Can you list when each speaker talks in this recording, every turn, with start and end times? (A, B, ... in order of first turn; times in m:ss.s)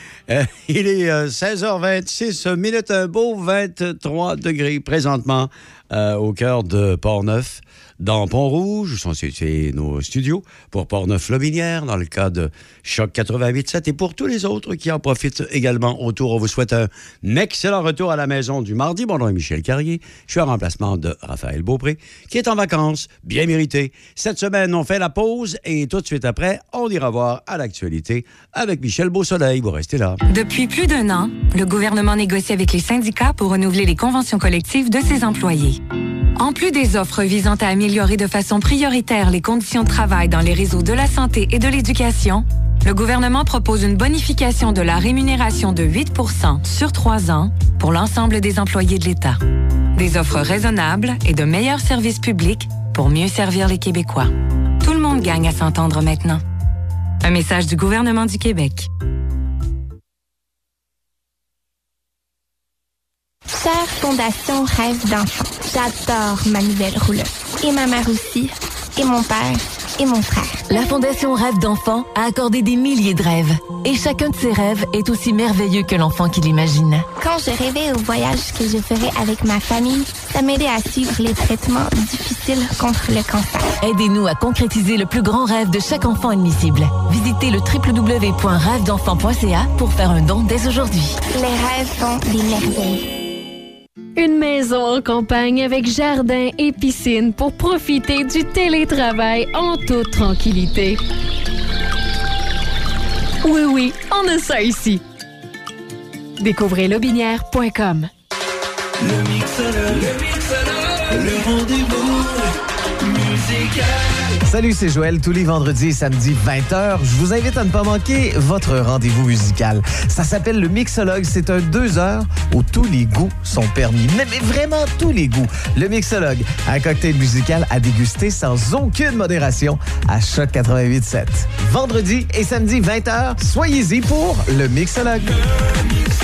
0:00.3-0:30.2 A
0:30.3-0:35.8 B
0:36.4-0:49.4 B
0:50.0-0:56.4 B
0:57.2-0:58.9 B
1:03.5-1:10.8 C
1:10.9-1:17.1 D
1:17.2-1:23.7 C
1:25.5-1:31.0 D
1:31.3-1:33.0 C
1:35.5-1:36.1 E
1:37.0-1:41.0 E
1:43.4-1:45.0 E
1:46.4-1:48.1 E
1:51.1-1:52.0 F
1:54.4-2:15.4 F